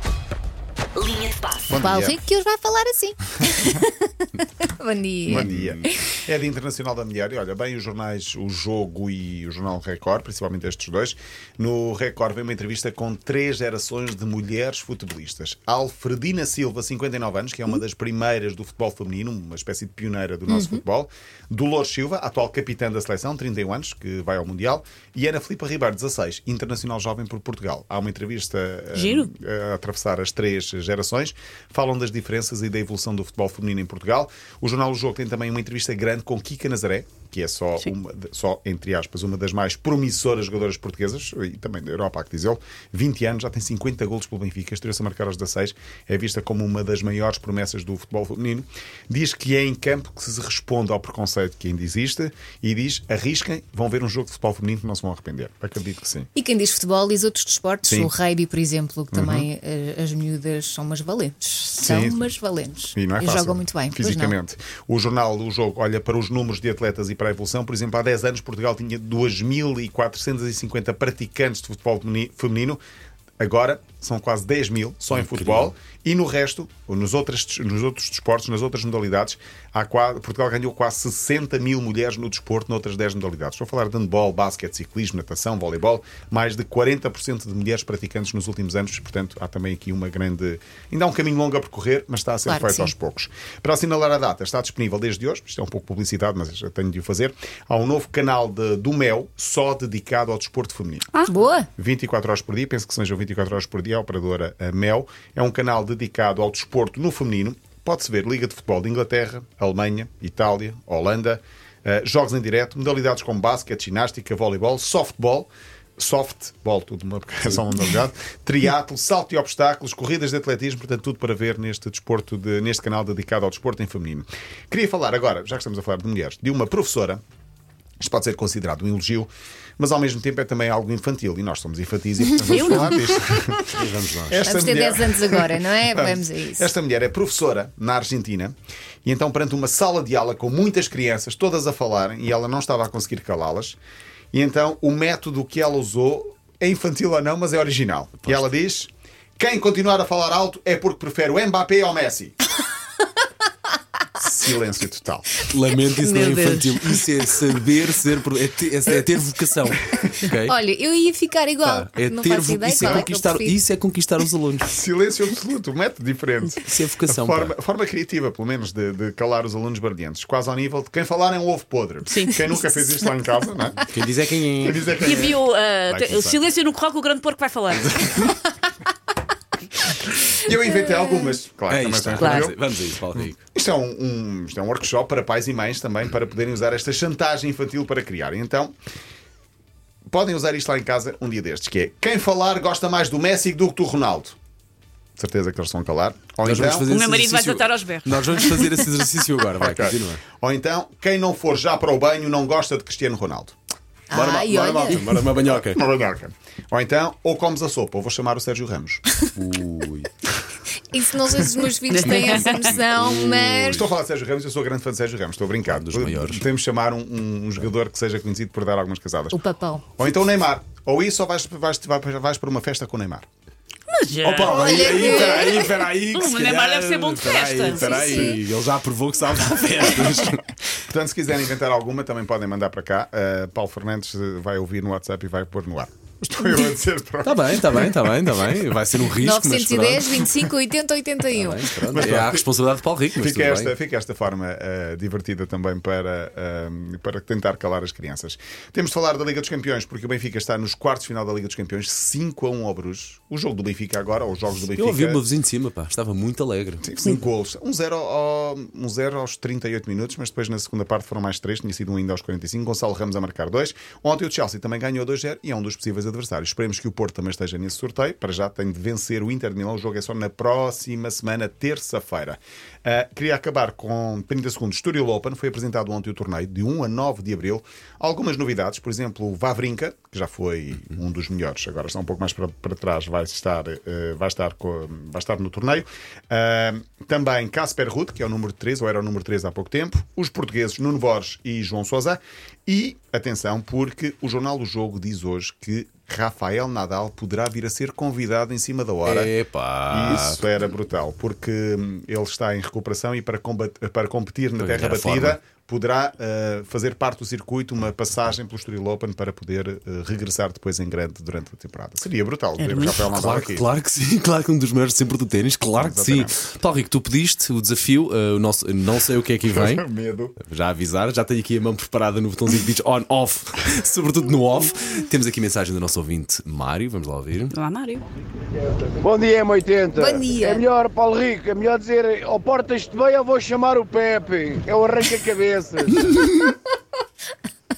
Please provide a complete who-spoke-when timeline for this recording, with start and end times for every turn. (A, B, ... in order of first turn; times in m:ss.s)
0:01.7-0:02.2 A
0:01.7-0:06.0 B
0:05.3-0:56.3 A
0:05.3-0:05.8 C
0:20.5-0:20.8 B
0:28.9-0:29.3 D
0:56.3-1:04.3 B
0:57.8-0:58.1 A
0:59.1-0:59.5 A
1:01.8-1:02.2 A
1:02.9-1:12.8 A
1:13.4-1:41.0 A
1:15.1-1:15.7 C
1:32.4-1:32.9 B
1:41.2-1:41.7 B
1:41.8-2:07.2 A
2:08.0-2:13.7 A
2:12.5-2:12.9 D
2:13.7-2:14.5 C
2:14.3-2:23.8 A
2:14.4-2:16.7 B
2:24.3-2:32.4 A
2:34.2-2:35.3 A
2:35.5-2:40.5 C
2:36.0-2:36.7 D
2:40.3-2:43.6 B
2:41.6-2:44.7 C
2:42.8-2:43.1 A
2:44.7-2:53.8 A
2:46.6-2:47.5 C
2:52.1-2:52.6 D
2:53.9-2:54.8 C
2:54.6-2:56.4 A
2:55.0-2:58.2 D
2:57.9-2:58.3 C
3:00.3-3:02.6 A
3:01.7-3:03.4 C
3:02.2-3:02.5 D
3:03.4-3:08.7 A
3:10.1-3:14.4 A
3:15.2-3:16.9 A
3:16.4-3:20.2 C
3:16.9-3:18.4 D
3:19.6-3:23.6 A
3:24.1-3:25.1 B
3:24.1-3:25.8 C
3:25.4-3:29.0 A
3:29.3-3:30.1 C
3:30.9-3:33.9 B
3:31.9-3:32.7 D
3:32.1-3:33.8 C
3:33.7-3:39.4 A
3:35.7-3:36.5 C
3:39.3-3:39.8 B
3:40.0-3:43.2 A
3:43.9-3:44.7 D
3:44.2-3:50.5 C
3:44.4-3:45.7 B
3:46.1-3:48.3 D
3:47.7-3:48.4 B
3:47.9-3:48.4 A
3:50.8-3:57.9 A
3:57.2-4:00.3 C
3:59.2-4:02.2 B
4:01.3-4:03.7 C
4:01.9-4:02.4 A
4:03.1-4:15.2 A
4:14.8-4:16.8 C
4:16.8-4:59.3 A
4:59.0-5:00.4 C
4:59.9-5:13.6 A
5:04.6-5:05.4 C
5:12.6-5:13.0 D
5:12.9-5:19.8 C
5:15.8-5:16.4 A
5:19.5-5:20.4 A
5:20.4-5:27.5 C
5:27.5-5:28.0 D
5:29.0-5:36.1 E
5:30.0-5:30.6 B